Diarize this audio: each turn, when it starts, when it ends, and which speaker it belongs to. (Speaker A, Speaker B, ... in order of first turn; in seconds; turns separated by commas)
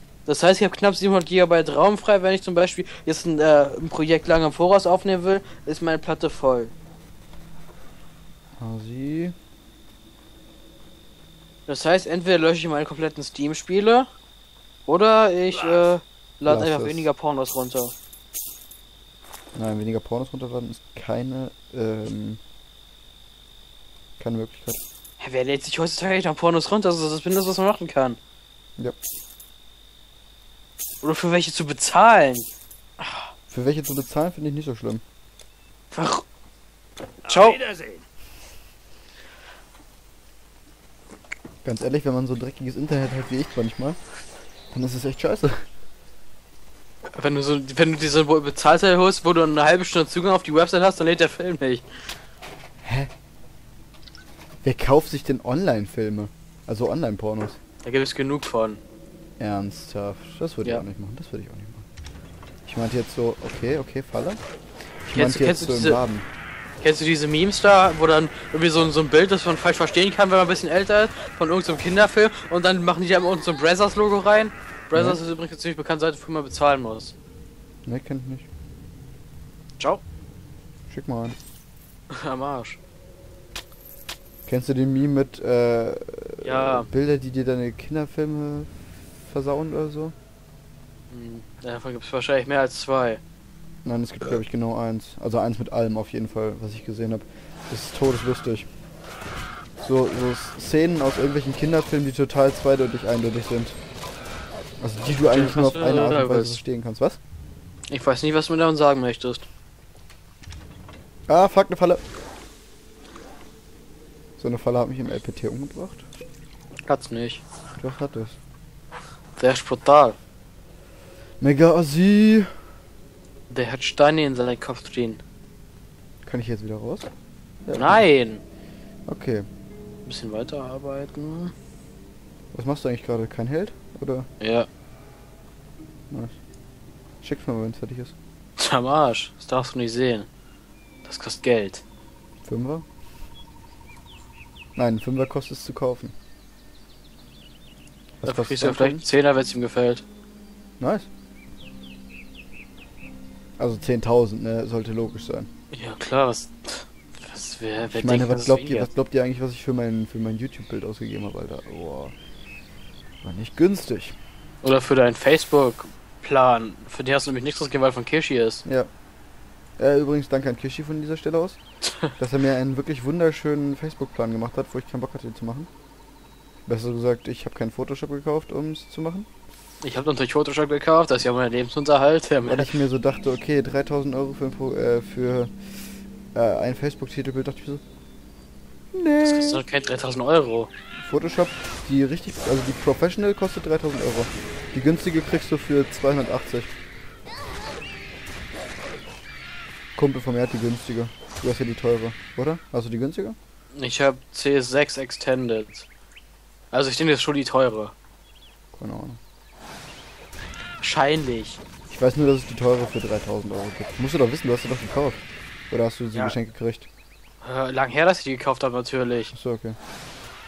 Speaker A: 0.2-6.7, Speaker B: 8.6-9.3, Speaker A: 11.7-14.1, Speaker A: 14.8-17.9, Speaker B: 16.4-17.1, Speaker B: 19.5-22.4, Speaker B: 24.2-24.8, Speaker A: 25.2-28.2, Speaker A: 31.0-32.5, Speaker A: 33.0-33.3, Speaker B: 33.5-35.0, Speaker A: 35.9-36.2, Speaker A: 37.2-37.7, Speaker B: 41.6-44.0, Speaker B: 44.7-45.6, Speaker A: 47.1-51.9, Speaker B: 52.8-53.1, Speaker B: 54.6-57.6, Speaker A: 57.8-58.8, Speaker B: 59.4-61.8, Speaker B: 62.6-64.4, Speaker B: 65.0-66.3, Speaker A: 65.1-66.0, Speaker A: 66.8-77.1, Speaker B: 74.9-75.2, Speaker B: 77.8-78.5, Speaker B: 80.9-81.4, Speaker A: 82.1-82.8, Speaker B: 84.5-90.1, Speaker A: 86.4-86.9, Speaker A: 91.1-93.2, Speaker B: 93.8-98.7, Speaker B: 99.8-103.8, Speaker B: 104.8-107.2, Speaker A: 105.3-106.6, Speaker A: 107.9-109.5, Speaker B: 111.3-112.0, Speaker B: 114.4-116.0, Speaker A: 116.8-117.4, Speaker B: 117.7-118.4, Speaker A: 119.4-120.2, Speaker B: 121.4-122.5, Speaker A: 123.5-125.2, Speaker B: 126.2-127.1, Speaker B: 127.7-128.1, Speaker A: 127.7-128.4, Speaker B: 129.1-129.4, Speaker A: 130.0-131.5, Speaker B: 132.5-134.3, Speaker A: 134.4-134.7, Speaker B: 136.1-136.3, Speaker B: 137.2-138.1, Speaker A: 138.6-140.3, Speaker A: 141.0-141.8, Speaker B: 142.4-142.8, Speaker B: 144.8-146.1, Speaker B: 148.2-149.0, Speaker A: 148.2-150.0, Speaker B: 150.8-151.1, Speaker B: 153.6-155.5, Speaker A: 155.7-158.9, Speaker B: 157.9-162.1, Speaker B: 163.2-164.2, Speaker A: 164.6-168.6, Speaker B: 169.8-171.6, Speaker B: 172.2-175.7, Speaker B: 176.6-179.3, Speaker A: 179.8-182.8, Speaker B: 182.4-185.5, Speaker B: 186.3-187.8, Speaker B: 188.9-189.6, Speaker A: 189.2-190.7, Speaker B: 191.0-196.7, Speaker B: 199.9-203.4, Speaker A: 203.8-205.9, Speaker A: 206.7-207.9, Speaker B: 208.7-209.2, Speaker A: 210.8-211.6, Speaker B: 211.9-216.9, Speaker A: 217.4-219.3, Speaker B: 219.3-219.8